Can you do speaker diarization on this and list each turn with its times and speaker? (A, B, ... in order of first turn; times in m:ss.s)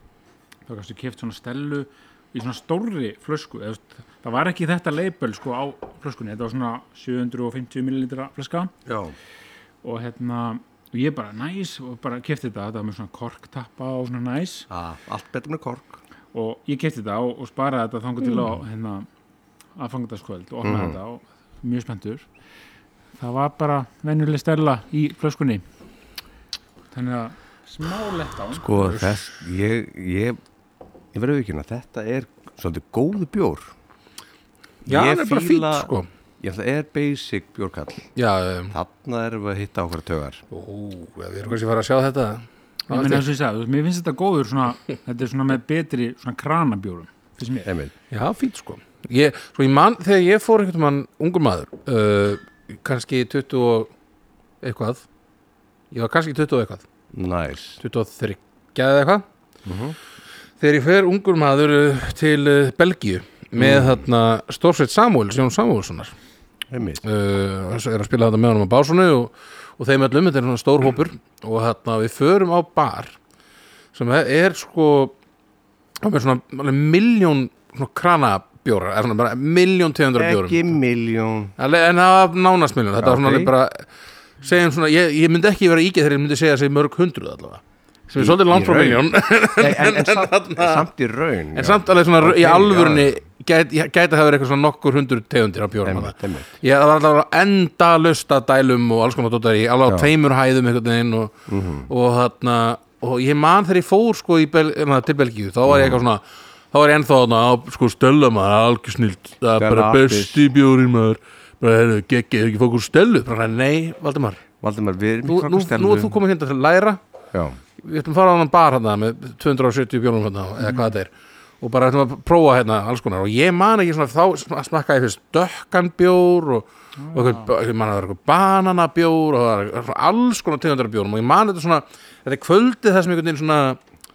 0:00.7-0:08.7 A
0:08.8-0:09.2 B
0:09.8-0:14.7 A
0:14.7-0:16.0 B
0:16.3-0:19.1 A
0:19.7-0:22.3 A
0:20.6-0:21.0 B
0:23.2-0:25.6 A
0:26.9-0:28.7 A
0:28.5-0:30.4 B
0:28.9-0:29.1 C
0:31.1-0:33.7 B
0:34.8-0:38.1 B
0:34.9-0:36.1 C
0:38.2-0:38.7 C
0:38.7-0:40.4 B
0:40.5-0:43.2 C
0:42.9-0:47.7 A
0:47.6-0:47.9 B
0:48.1-0:53.9 C
0:54.6-0:55.0 C
0:55.9-0:56.8 C
0:57.1-0:57.8 B
0:57.8-0:59.2 C
0:59.6-1:00.0 B
1:00.6-1:06.1 C
1:03.6-1:04.0 B
1:06.7-1:07.0 B
1:07.0-1:13.2 C
1:13.9-1:15.1 C
1:16.0-1:20.7 C
1:20.2-1:21.5 B
1:21.6-1:23.9 C
1:23.0-1:23.5 B
1:24.4-1:30.8 C
1:28.2-1:33.2 B
1:31.5-1:54.4 C
1:35.8-1:36.5 B
1:41.5-1:41.9 B
1:45.7-1:46.0 B
1:49.6-1:50.4 B
1:54.6-1:56.2 B
1:55.2-1:57.0 C
1:57.3-1:57.6 B
1:57.8-2:13.8 C
2:00.6-2:00.9 A
2:07.0-2:07.5 A